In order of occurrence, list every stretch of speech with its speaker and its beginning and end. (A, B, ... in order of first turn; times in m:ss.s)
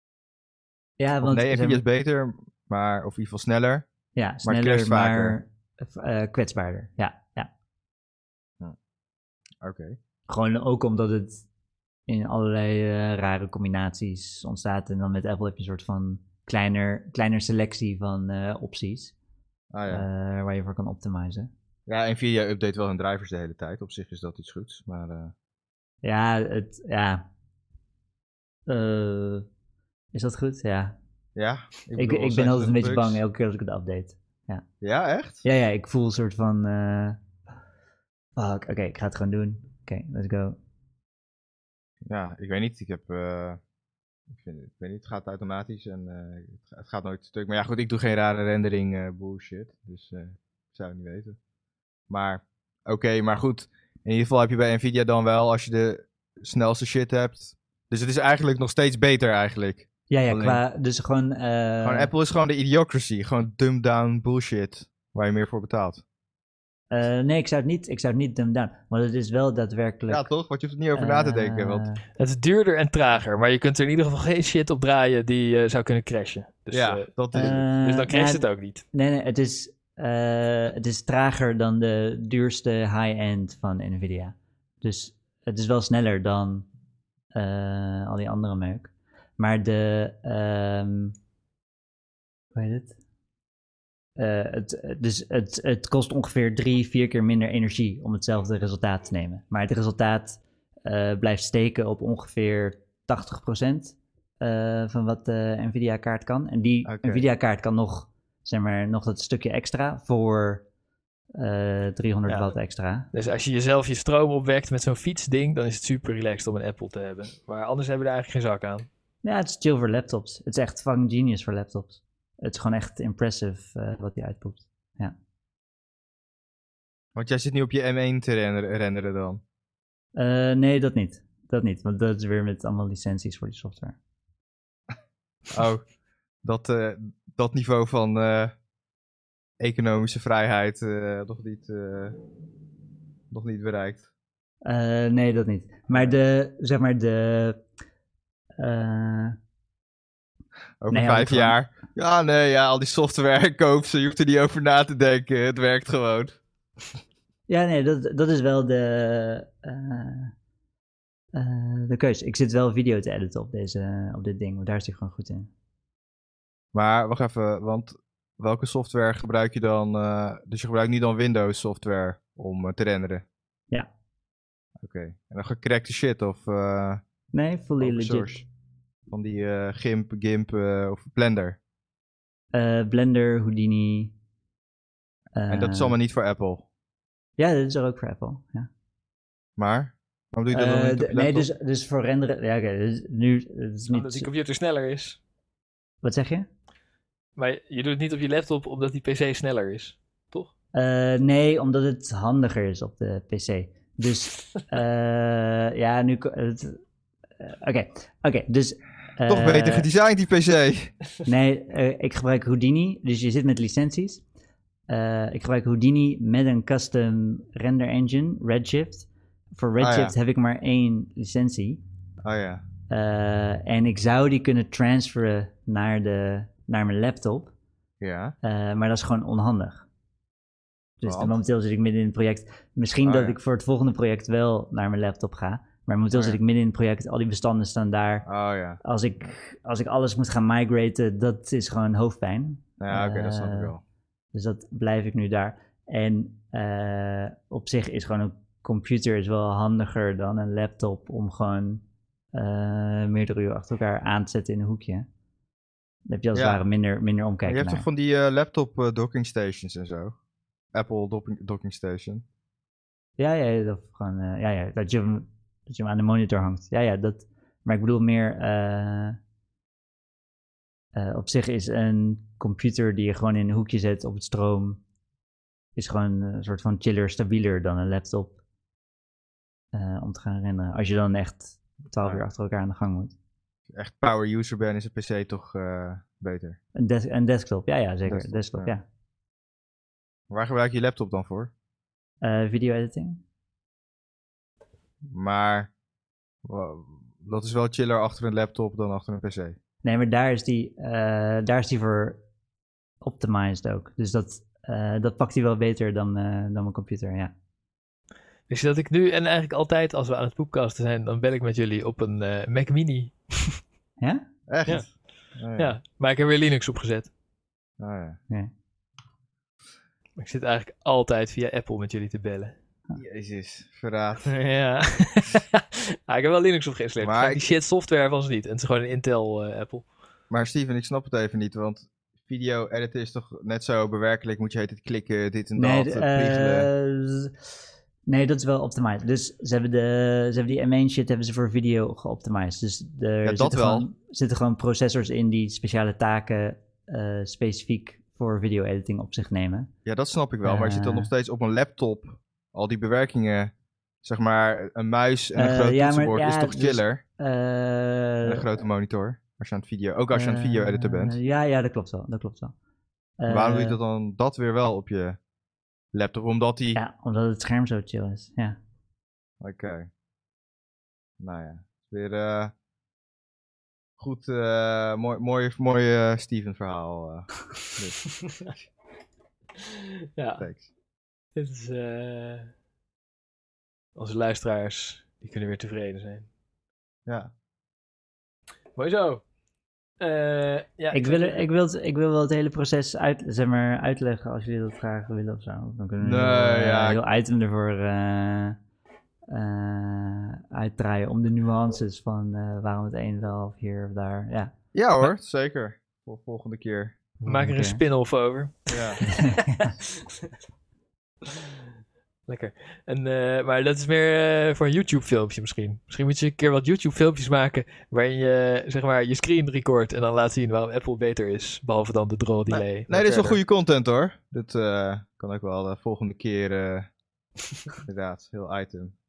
0:01.0-0:01.8 A
0:01.2-0:03.9 B
0:04.2-0:07.5 A
0:04.4-0:05.4 B
0:09.6-0:10.0 B
0:10.3-0:11.4 A
0:12.1-0:19.1 A
0:19.7-0:20.1 B
0:19.9-0:21.5 A
0:21.9-0:25.3 B
0:26.0-0:27.2 A
0:28.7-0:29.5 A
0:30.1-0:31.0 A
0:31.4-0:33.2 B
0:32.0-0:34.6 A
0:34.8-0:35.4 B
0:35.4-0:37.2 A
0:38.4-0:40.6 A
0:42.1-0:43.6 B
0:44.3-0:51.4 B
0:52.1-1:00.6 B
1:00.1-1:02.1 A
1:01.8-1:06.0 B
1:06.9-1:10.3 A
1:10.1-1:11.9 B
1:11.0-1:12.0 A
1:12.2-1:18.8 C
1:16.7-1:17.6 B
1:17.3-1:26.7 A
1:27.3-1:31.2 A
1:32.5-1:33.0 A
1:34.2-1:50.7 A
1:46.8-1:47.2 B
1:51.4-1:53.1 A
1:52.3-1:52.6 C
1:53.1-1:58.9 C
1:59.2-2:05.2 A
2:07.2-2:09.4 B
2:10.2-2:14.0 A
2:15.5-2:15.9 B
2:16.4-2:18.5 B
2:19.6-2:22.2 B
2:23.3-2:24.0 B
2:24.6-2:27.6 A
2:28.6-2:29.4 A
2:30.8-2:36.4 B
2:30.9-2:31.6 A
2:37.5-2:40.3 A
2:41.3-2:45.5 A
2:46.7-2:53.2 B
2:54.8-2:57.0 B
2:57.3-2:58.4 A
2:57.8-2:58.4 B
2:59.1-3:01.6 B
3:02.5-3:04.1 A
3:05.4-3:06.0 A
3:05.5-3:06.6 B
3:07.4-3:08.7 A
3:09.6-3:11.5 B
3:10.5-3:14.3 A
3:13.9-3:15.2 C
3:16.0-3:16.5 A
3:17.4-3:20.5 C
3:20.7-3:26.8 A
3:27.4-3:29.8 A
3:29.3-3:31.0 B
3:31.2-3:34.2 A
3:34.9-3:41.8 A
3:39.8-3:40.1 B
3:42.2-3:42.6 B
3:42.9-3:47.5 A
3:48.0-3:48.3 B
3:48.4-3:49.8 A
3:51.0-3:58.3 A
3:51.0-3:51.3 B
3:53.0-3:53.4 B
3:56.1-3:56.4 B
3:58.3-3:58.8 B
3:58.8-4:03.7 A
4:02.8-4:03.8 B
4:04.3-4:15.1 A
4:16.1-4:17.8 A
4:16.3-4:16.6 B
4:17.4-4:20.1 B
4:20.7-4:22.2 B
4:23.2-4:29.2 A
4:30.9-4:34.8 A
4:35.8-4:38.4 A
4:39.7-4:43.2 A
4:43.8-4:46.6 B
4:46.8-4:48.8 A
4:48.1-4:48.7 B
4:50.3-4:51.5 B
4:52.2-4:53.2 A
4:55.1-4:55.7 B
4:56.4-4:59.6 B
4:59.8-5:02.2 A
5:03.0-5:07.3 A
5:08.5-5:13.6 C
5:14.0-5:14.3 A
5:14.5-5:15.7 B
5:14.7-5:15.0 C
5:15.6-5:17.1 C
5:17.8-5:18.2 B
5:20.2-5:22.6 C
5:23.0-5:24.3 B
5:24.3-5:29.9 C
5:27.0-5:27.5 B
5:30.3-5:36.7 B
5:35.6-5:37.4 A
5:38.1-5:49.7 A
5:43.2-5:43.9 B
5:49.9-5:57.0 B
5:50.4-5:51.1 A
5:55.4-5:58.5 A
5:58.2-6:01.2 B
6:00.1-6:02.5 A
6:03.2-6:03.8 A
6:03.3-6:05.2 B
6:05.9-6:06.8 B
6:06.8-6:08.6 A
6:09.4-6:09.9 B
6:11.2-6:12.5 B
6:14.0-6:18.0 B
6:18.1-6:18.6 C
6:19.6-6:20.5 C
6:20.4-6:20.6 B
6:21.4-6:22.5 C
6:24.0-6:26.3 C
6:28.8-6:29.2 C
6:30.0-6:31.5 C
6:30.9-6:38.6 A
6:36.0-6:37.0 B
6:39.3-6:44.5 A
6:44.7-6:47.0 B
6:47.2-6:47.8 A
6:47.2-6:50.3 C
6:48.7-6:49.0 B
6:49.1-6:49.7 A
6:52.3-7:03.4 C
7:02.5-7:06.9 B
7:07.8-7:08.9 B